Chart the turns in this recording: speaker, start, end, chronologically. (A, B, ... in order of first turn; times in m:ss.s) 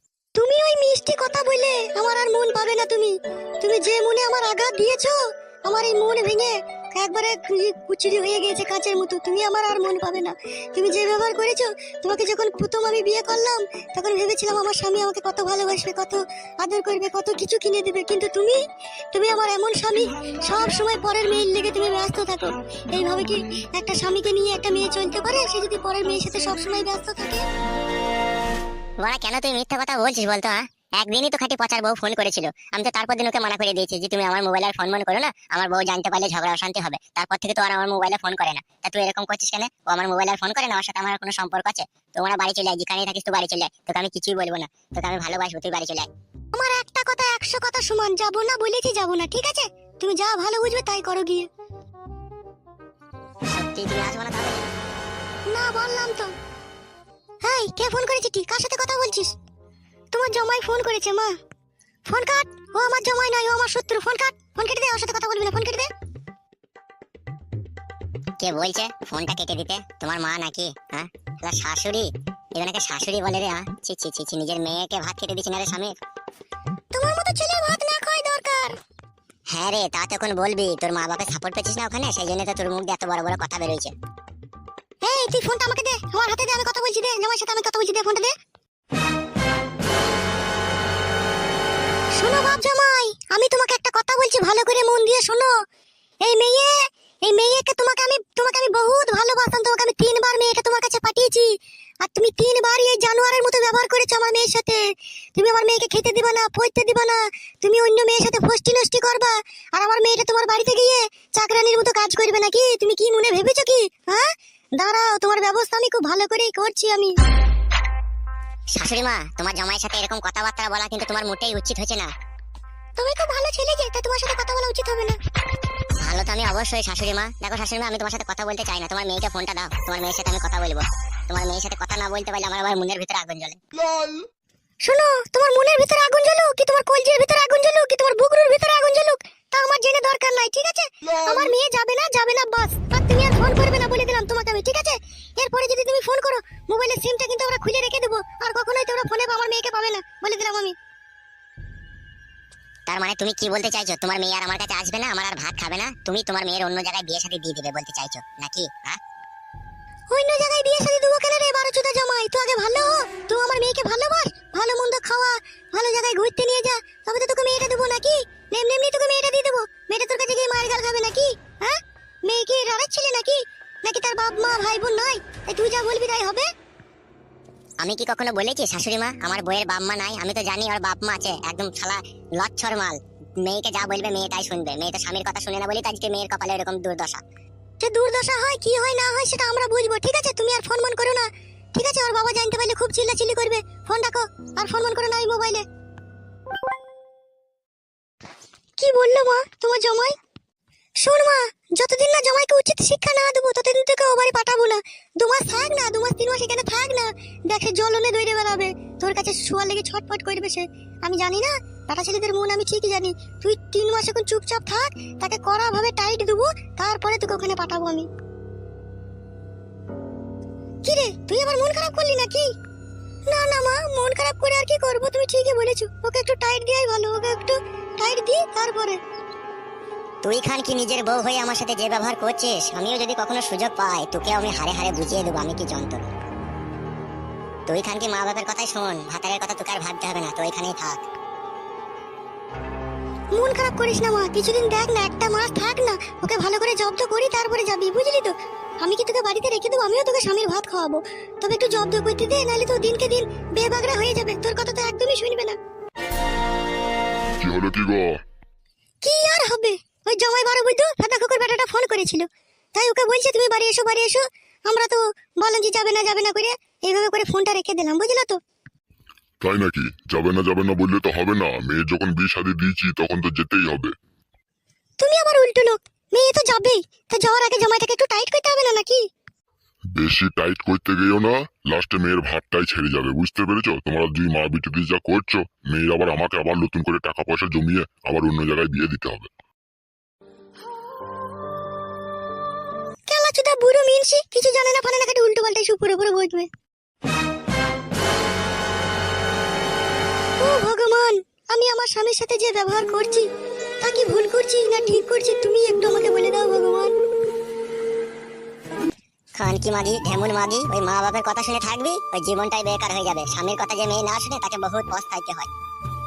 0:00.4-0:18.6 A
0:19.1-0:27.4 A
0:29.0-0:46.1 B
0:46.5-0:51.5 A
0:53.5-0:54.6 B
0:55.5-0:56.3 A
0:57.4-0:59.3 A
1:00.1-1:01.3 A
1:02.1-1:05.9 A
1:08.4-1:15.9 B
1:16.9-1:18.8 A
1:19.5-1:23.9 B
1:25.0-1:28.3 A
1:32.2-1:35.5 A
1:36.2-1:41.5 A
1:42.0-1:44.8 A
1:45.4-1:57.1 A
1:58.8-2:02.1 B
2:03.0-2:05.2 A
2:06.0-2:13.6 B
2:14.8-2:30.8 A
2:32.9-2:39.0 B
2:40.1-2:56.5 A
2:57.8-3:07.2 B
3:07.8-3:15.6 A
3:18.8-3:20.2 A
3:21.0-3:38.1 A
3:40.8-3:42.5 A
3:43.3-3:49.0 A
3:50.2-3:56.0 B
3:57.7-4:01.0 B
4:03.4-4:15.6 A
4:17.4-4:18.2 C
4:19.0-4:28.4 A
4:29.4-4:34.0 C
4:35.0-4:39.0 A
4:40.0-4:49.3 C
4:53.1-4:56.5 A
5:00.4-5:03.3 A
5:03.8-5:07.0 A
5:09.4-5:15.5 B